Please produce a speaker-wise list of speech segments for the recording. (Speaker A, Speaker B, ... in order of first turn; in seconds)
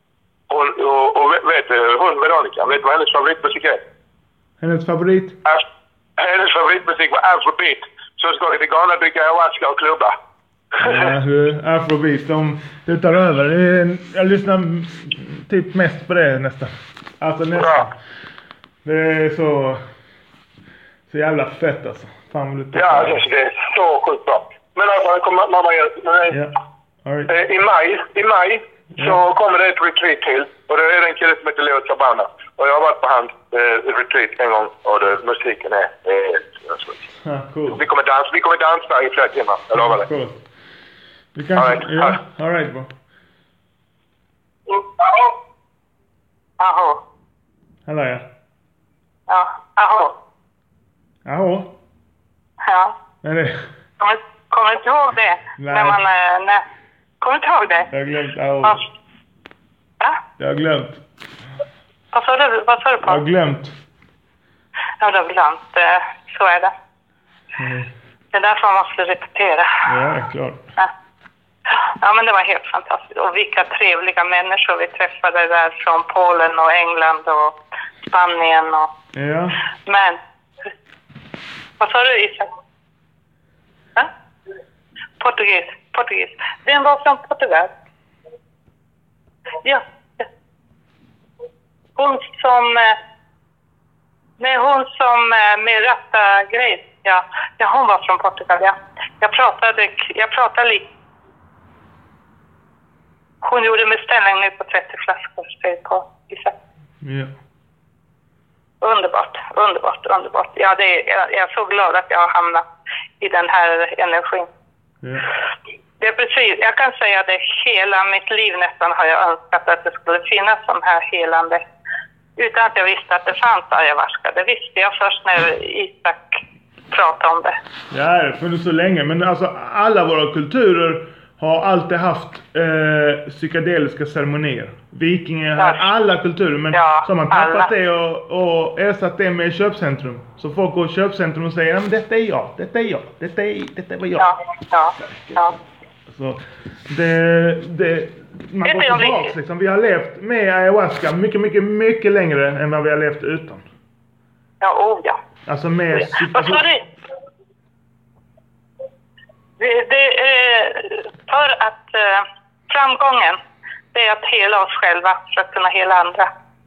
Speaker A: 0.5-3.8, 6.2-10.1, 10.7-11.1, 17.6-17.9, 22.7-26.4, 27.3-37.0, 37.7-40.0, 41.6-42.1
Speaker B: 4.6-5.4, 10.8-17.9, 18.8-19.8, 21.1-23.2, 26.3-27.3, 28.9-29.2, 37.2-37.8, 39.7-40.4, 41.3-42.9, 47.9-48.2, 51.2-51.7, 53.2-53.6, 55.6-56.0, 57.9-58.8, 60.4-61.0, 63.0-63.7, 67.6-67.9, 69.8-70.6, 79.1-79.6, 107.0-107.3, 115.0-115.3, 127.9-144.3, 145.0-145.5, 146.1-153.6, 155.4-156.7
Speaker C: 44.8-45.2, 46.6-47.0, 49.3-50.1, 52.6-53.0, 54.0-56.6, 57.2-57.9, 62.1-63.2, 65.0-66.7, 68.3-69.9, 71.7-78.9, 79.8-80.7, 81.8-82.5, 85.2-87.7, 89.6-90.3, 92.0-93.0, 94.4-100.8, 103.4-106.5, 108.8-112.7, 113.2-114.5, 116.0-121.6, 122.4-127.6, 135.6-135.9, 136.7-137.7, 144.2-145.5, 148.6-149.3, 154.6-155.2, 155.9-156.8, 159.6-163.4, 163.9-166.3